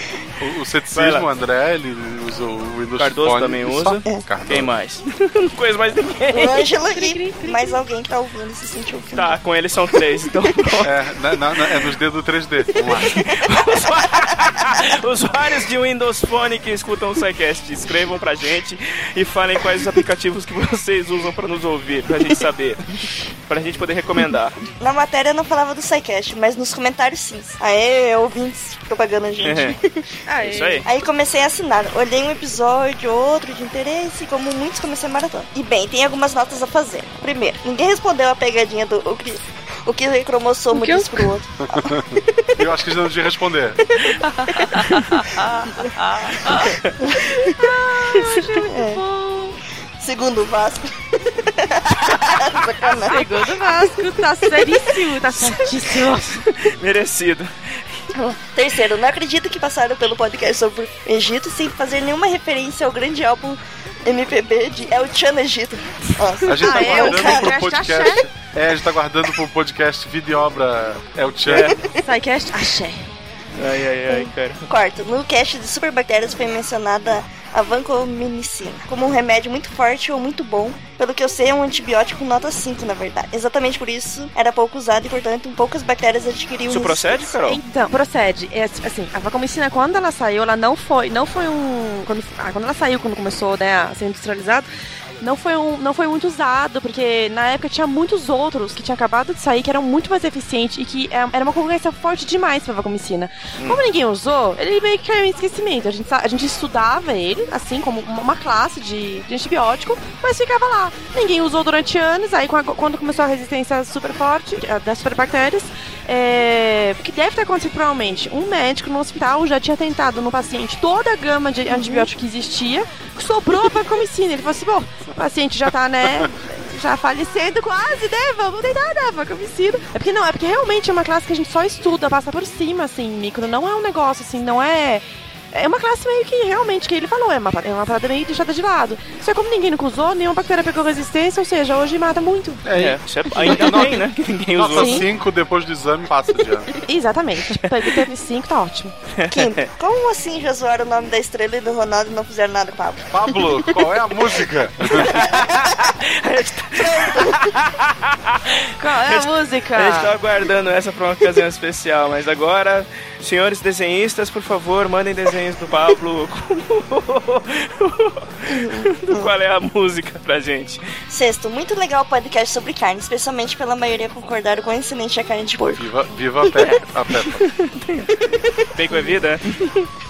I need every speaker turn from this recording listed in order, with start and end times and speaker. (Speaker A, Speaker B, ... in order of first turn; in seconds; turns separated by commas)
Speaker A: 0.4-4.7, Speaker B: 0.9-1.3, Speaker B: 3.0-6.6, Speaker C: 6.3-9.4, Speaker D: 6.9-7.8, Speaker B: 9.1-10.9, Speaker A: 10.8-13.2, Speaker B: 13.0-22.9, Speaker B: 23.5-24.6, Speaker C: 24.8-29.8, Speaker B: 29.4-29.7, Speaker D: 30.3-30.8, Speaker B: 30.4-30.8, Speaker C: 30.8-41.9, Speaker D: 40.7-41.3, Speaker A: 41.7-42.0, Speaker A: 42.6-43.8, Speaker D: 44.7-46.7, Speaker D: 47.5-49.6, Speaker C: 48.5-49.0, Speaker C: 50.0-53.8, Speaker D: 52.8-56.4, Speaker B: 55.4-58.0, Speaker C: 58.4-67.5, Speaker A: 66.4-71.7, Speaker D: 66.6-68.2, Speaker B: 71.5-71.8, Speaker C: 71.5-71.8, Speaker D: 72.0-73.0, Speaker B: 73.6-74.7, Speaker C: 74.7-87.3, Speaker B: 86.7-87.6, Speaker D: 87.5-94.7, Speaker D: 95.2-142.6, Speaker A: 142.6-144.0, Speaker B: 142.7-145.1, Speaker A: 144.6-146.7, Speaker D: 144.7-145.0, Speaker D: 146.9-148.9, Speaker B: 149.2-149.7, Speaker C: 149.3-153.7, Speaker A: 153.1-155.2, Speaker B: 154.8-158.4, Speaker C: 156.8-157.3, Speaker D: 158.8-160.1, Speaker B: 159.0-170.8, Speaker C: 171.1-175.8, Speaker A: 175.7-177.4, Speaker B: 176.6-178.1, Speaker B: 178.8-179.9